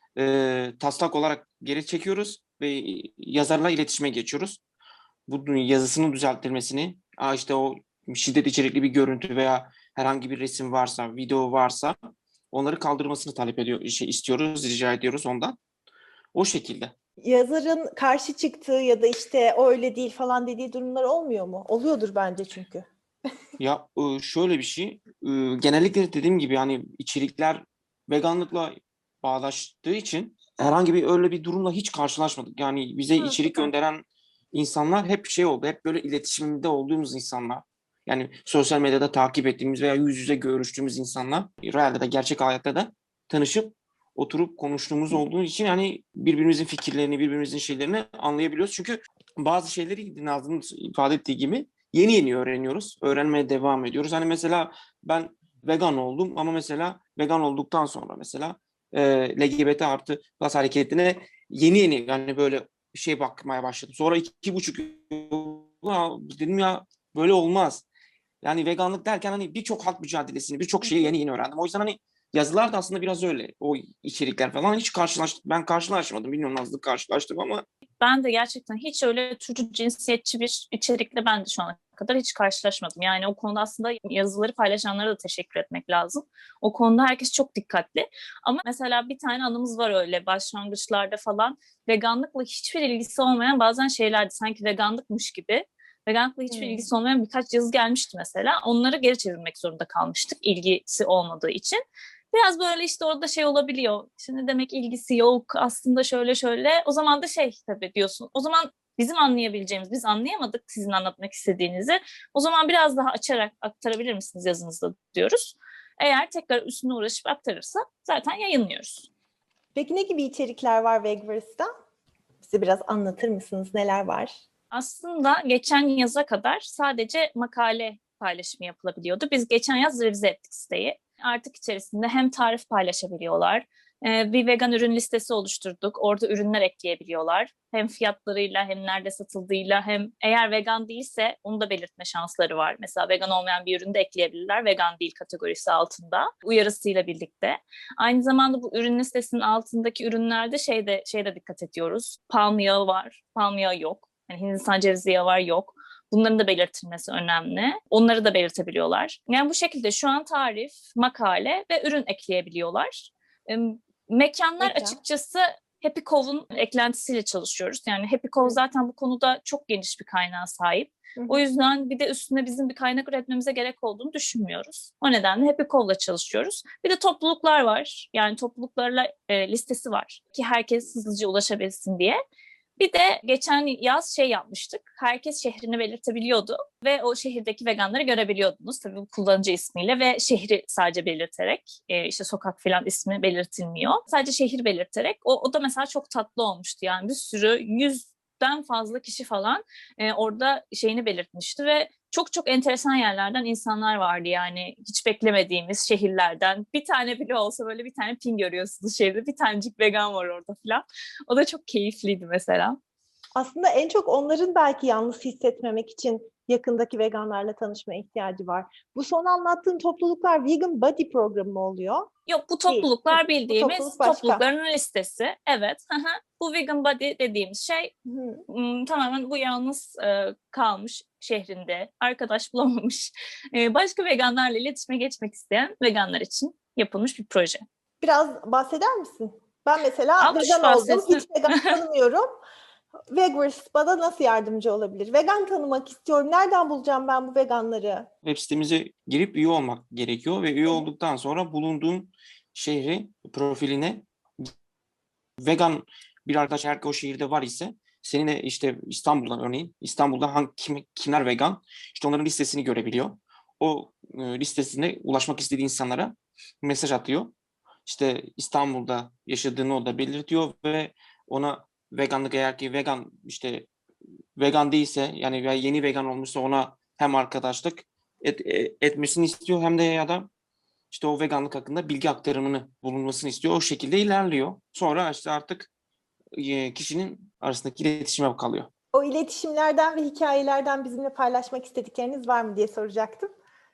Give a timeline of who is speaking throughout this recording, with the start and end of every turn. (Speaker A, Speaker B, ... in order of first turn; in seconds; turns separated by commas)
Speaker A: 0.2-4.6, Speaker A: 5.3-12.0, Speaker A: 12.5-15.6, Speaker A: 16.3-16.9, Speaker B: 17.2-22.9, Speaker A: 23.6-67.8, Speaker A: 68.4-77.7, Speaker C: 78.0-101.8, Speaker B: 96.5-96.9, Speaker C: 102.3-119.1, Speaker B: 119.7-121.7, Speaker B: 122.4-124.3, Speaker C: 124.7-182.2, Speaker B: 164.6-165.0, Speaker C: 182.8-212.8, Speaker B: 213.4-222.1, Speaker C: 222.3-227.9, Speaker B: 222.7-224.4, Speaker B: 228.1-228.4, Speaker C: 228.5-237.6, Speaker B: 238.0-242.3, Speaker C: 240.2-241.7, Speaker B: 243.1-248.1, Speaker A: 248.2-254.5, Speaker A: 255.4-267.3, Speaker A: 267.9-273.7, Speaker A: 274.4-280.3, Speaker A: 280.9-285.7, Speaker A: 286.4-288.7, Speaker B: 288.9-293.3